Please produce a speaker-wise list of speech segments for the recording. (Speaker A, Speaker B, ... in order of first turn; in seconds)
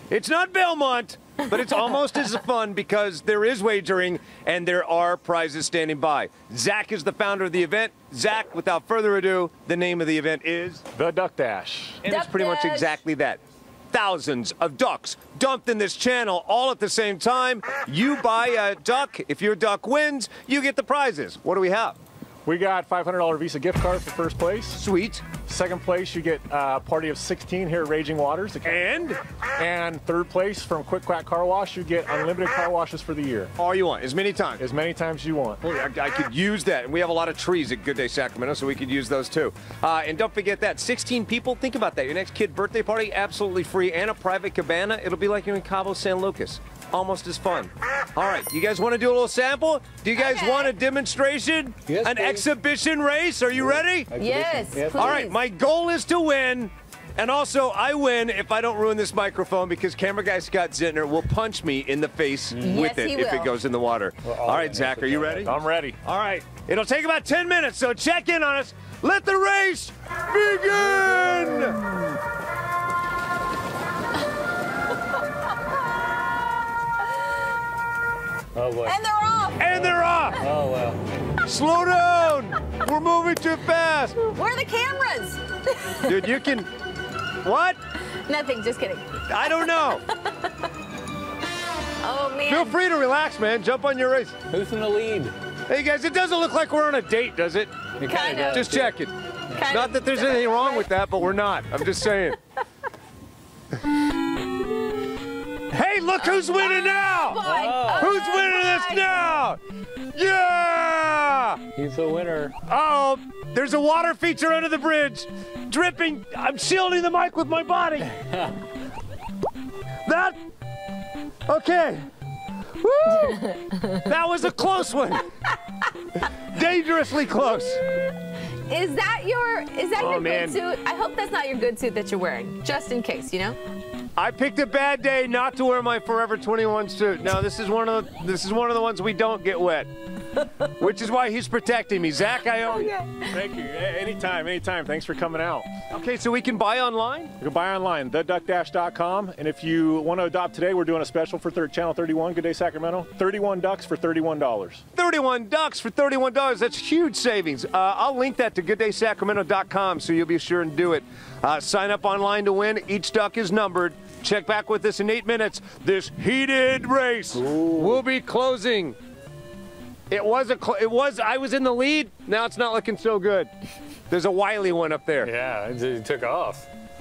Speaker A: 0.1-10.8, 12.0-13.4, 13.9-22.0, 24.7-25.2, 28.6-29.2, 33.6-34.6, 35.6-54.1, 54.9-71.8, 79.6-80.4, 81.5-84.2, 86.1-86.7, 87.4-87.8, 89.3-90.0, 92.5-94.4, 95.7-97.7, 98.5-99.1, 99.7-102.4, 105.7-109.6, 110.1-111.6, 112.7-118.1, 120.0-120.4, 121.5-122.0, 122.8-123.4, 124.0-125.2, 126.5-127.8, 129.9-130.6, 134.2-139.9, 140.8-142.9, 145.9-147.3, 155.0-169.0, 170.1-173.5, 174.1-175.3
Speaker B: 10.9-12.0, 22.4-24.8, 25.4-28.8, 29.6-33.5, 34.6-35.6, 65.4-66.0, 143.3-145.7, 147.4-154.8
Speaker C: 12.1-13.0, 50.1-50.7, 54.2-55.4, 62.6-63.5, 78.8-79.9, 84.2-86.2, 88.2-90.7, 92.0-92.8, 98.1-98.7, 99.5-100.9, 106.2-109.3, 123.1-124.1, 128.7-133.6, 142.5-143.4
Speaker D: 51.9-52.5, 53.6-55.2, 62.5-62.8, 64.2-65.5, 78.5-79.0, 79.8-81.0, 94.5-95.3, 98.0-99.0, 107.4-108.2, 111.8-112.5, 167.4-168.0, 175.2-176.7